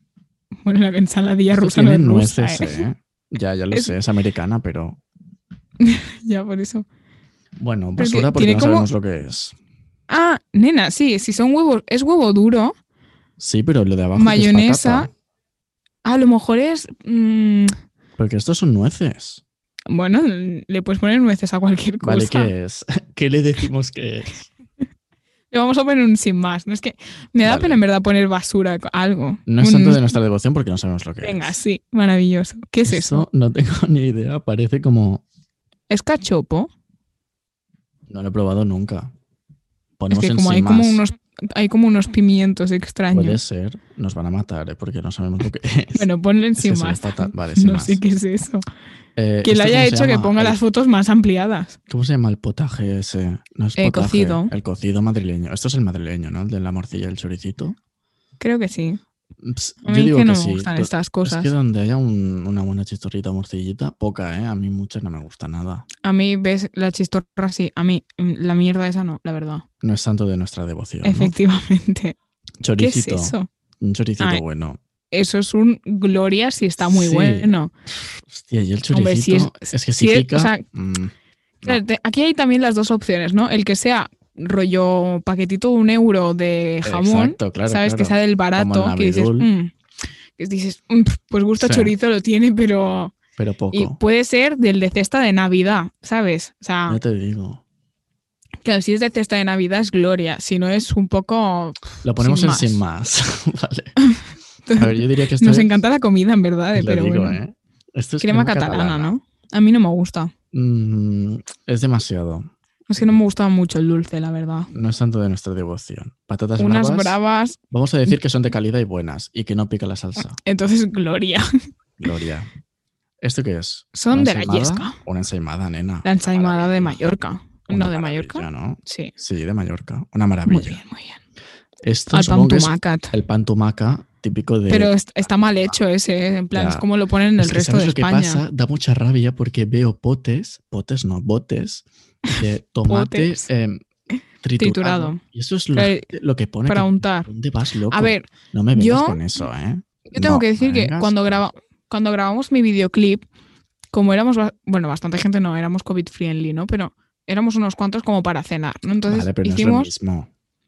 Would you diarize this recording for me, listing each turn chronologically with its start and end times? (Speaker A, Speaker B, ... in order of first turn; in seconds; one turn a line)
Speaker A: 0.6-2.8
Speaker B: 1.5-5.0
Speaker A: 5.8-6.8
Speaker B: 7.6-9.6
Speaker A: 8.0-8.9
Speaker A: 10.1-12.7
Speaker B: 13.4-15.1
Speaker A: 14.1-15.1
Speaker A: 16.0-17.7
Speaker B: 18.2-19.4
Speaker A: 19.9-22.5
Speaker B: 22.0-24.5
Speaker A: 25.5-30.1
Speaker B: 27.4-27.8
Speaker B: 29.5-31.6
Speaker A: 31.2-33.3
Speaker B: 32.8-35.2
Speaker A: 35.9-36.7
Speaker B: 38.1-39.1
Speaker B: 40.0-41.0
Speaker A: 40.1-43.4
Speaker B: 43.1-48.0
Speaker A: 45.9-48.6
Speaker B: 49.1-50.6
Speaker A: 49.4-51.8
Speaker B: 51.9-57.8
Speaker A: 53.8-54.5
Speaker A: 58.4-59.0
Speaker B: 59.4-65.8
Speaker A: 59.8-61.5
Speaker A: 66.0-69.6
Speaker B: 69.8-71.3
Speaker A: 71.0-72.2
Speaker B: 72.6-74.8
Speaker A: 72.8-73.5
Speaker A: 75.1-77.7
Speaker B: 76.8-81.8
Speaker A: 78.9-80.6
Speaker A: 81.6-89.7
Speaker B: 86.8-89.5
Speaker A: 90.4-93.1
Speaker B: 91.6-91.9
Speaker B: 93.4-94.0
Speaker A: 93.7-97.0
Speaker B: 96.9-97.6
Speaker A: 98.6-102.8
Speaker B: 102.0-103.9
Speaker A: 104.1-107.4
Speaker B: 104.8-105.8
Speaker B: 106.7-109.1
Speaker A: 108.2-110.3
Speaker B: 110.5-112.5
Speaker A: 112.9-114.7
Speaker B: 114.7-117.2
Speaker A: 116.6-117.6
Speaker B: 117.7-120.4
Speaker A: 120.4-121.5
Speaker B: 122.0-122.5
Speaker B: 123.2-127.0
Speaker A: 123.9-125.0
Speaker A: 126.0-129.1
Speaker B: 127.7-130.8
Speaker A: 130.4-131.2
Speaker B: 131.8-135.8
Speaker A: 132.1-133.1
Speaker A: 134.7-138.4
Speaker B: 136.5-136.8
Speaker B: 137.4-143.8
Speaker A: 142.3-143.4
Speaker B: 144.4-151.4
Speaker A: 144.6-145.2
Speaker A: 145.7-146.1
Speaker A: 146.7-147.3
Speaker A: 147.9-149.2
Speaker A: 150.1-153.2
Speaker A: 153.9-159.9
Speaker B: 159.1-160.3